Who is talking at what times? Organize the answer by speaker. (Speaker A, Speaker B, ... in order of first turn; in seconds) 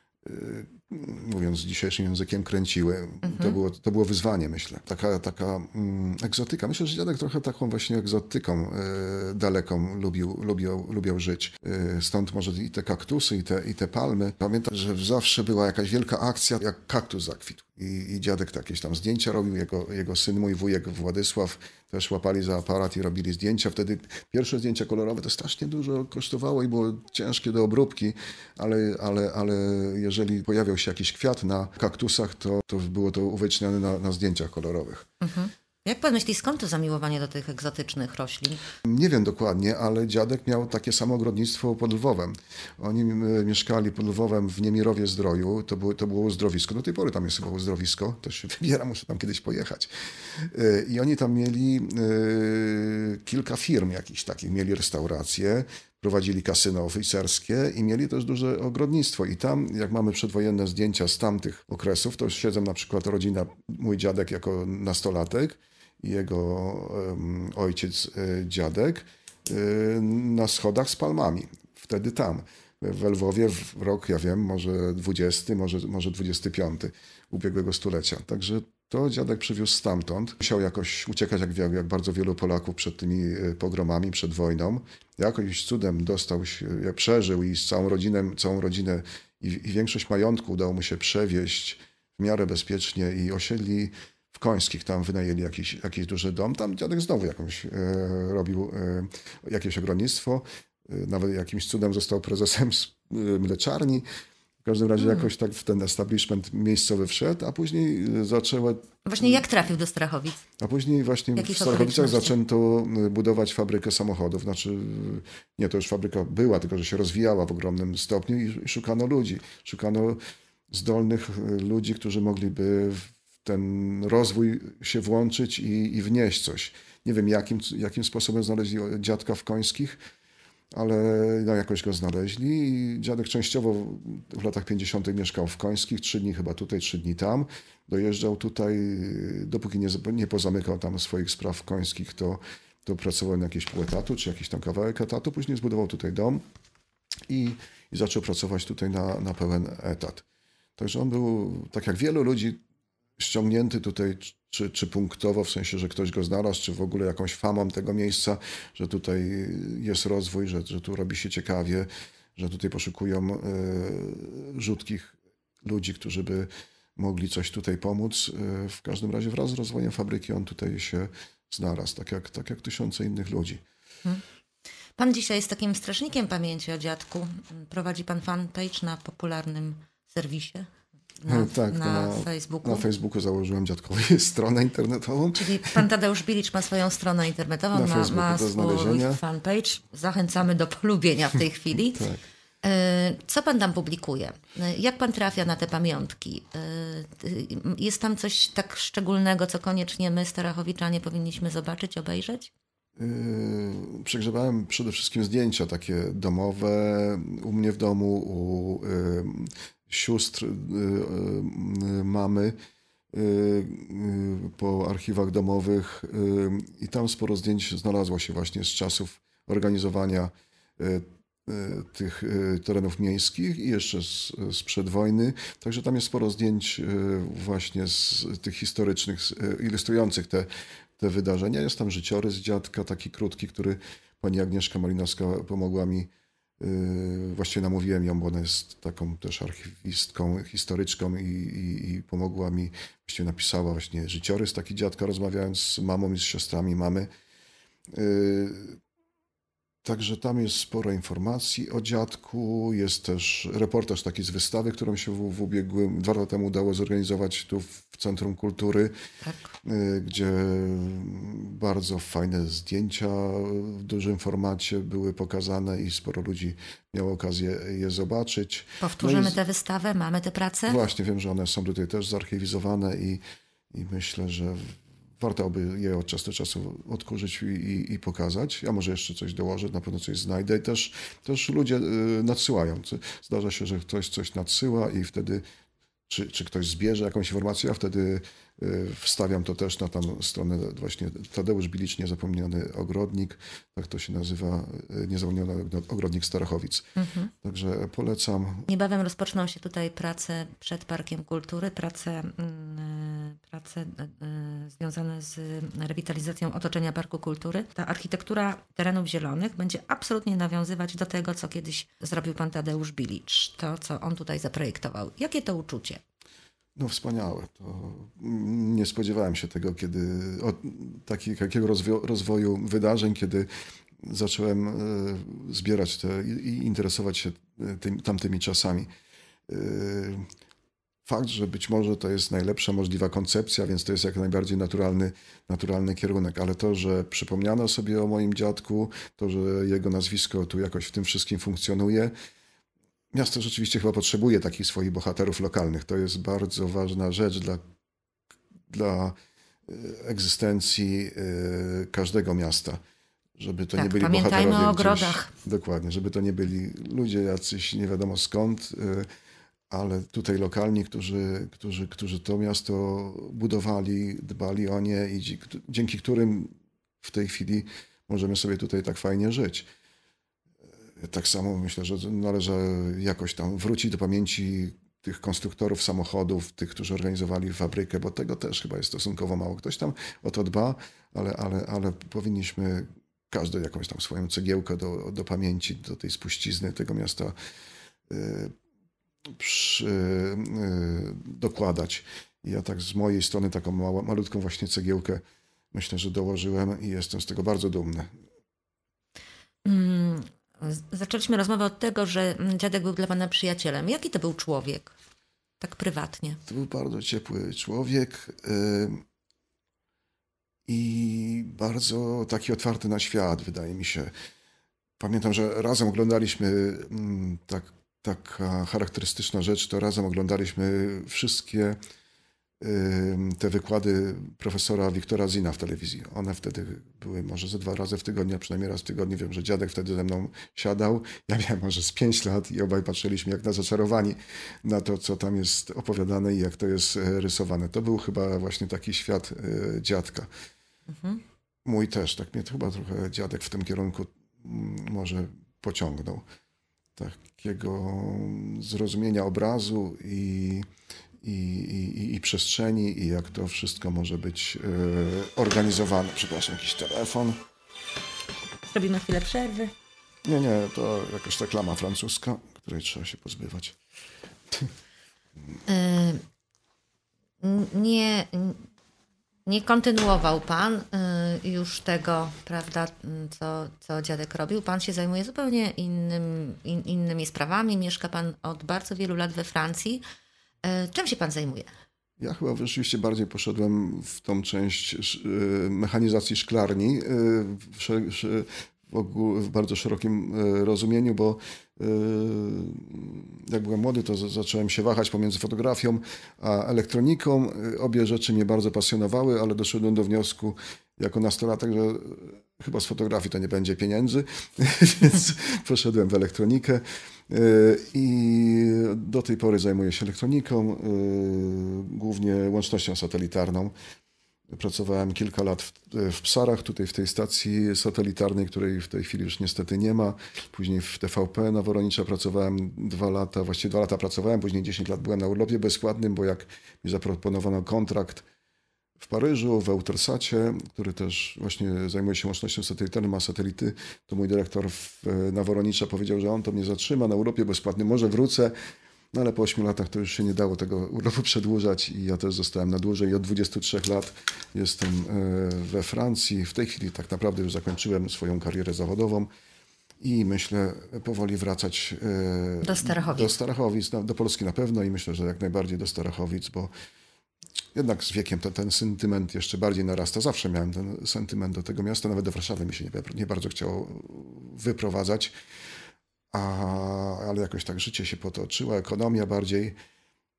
Speaker A: 0.2-35.0, 38.8-104.0, 104.6-109.4, 110.6-120.2, 120.7-130.0, 130.7-146.4, 147.3-150.2, 150.8-152.6, 153.2-173.6, 181.3-185.8, 187.7-189.2, 191.9-192.3, 203.0-212.5, 213.1-236.1, 236.6-247.1, 247.9-248.8, 249.8-258.9, 259.6-269.4, 270.7-273.2, 273.7-285.4, 286.1-296.9, 297.4-298.7, 316.8-323.5, 324.0-328.9, 329.5-330.2, 331.0-342.1, 343.1-347.6, 348.7-349.1, 349.7-352.8, 353.4-359.1, 359.7-366.5, 367.0-369.7, 371.0-387.3, 388.1-388.5, 389.4-395.2, 395.7-398.1, 406.4-409.0, 410.7-414.1, 415.0-421.8, 422.6-440.3, 441.6-446.2, 446.9-450.6, 451.2-457.4, 460.2-463.8, 482.2-513.7, 514.5-528.2, 529.0-538.5, 539.1-549.3, 550.0-556.7, 557.7-565.3, 566.3-569.7
Speaker B: 3.2-3.6, 35.2-38.6, 105.0-105.3, 109.0-110.4, 111.3-112.3, 174.9-180.7, 181.2-182.8, 185.4-192.0, 192.6-202.5, 259.2-259.5, 268.8-270.8, 297.0-297.3, 298.7-316.0, 353.8-355.3, 399.6-404.9, 405.6-406.4, 440.9-441.2, 458.6-459.7, 465.7-466.2, 467.4-468.6, 469.4-480.0, 480.6-481.7, 552.6-553.4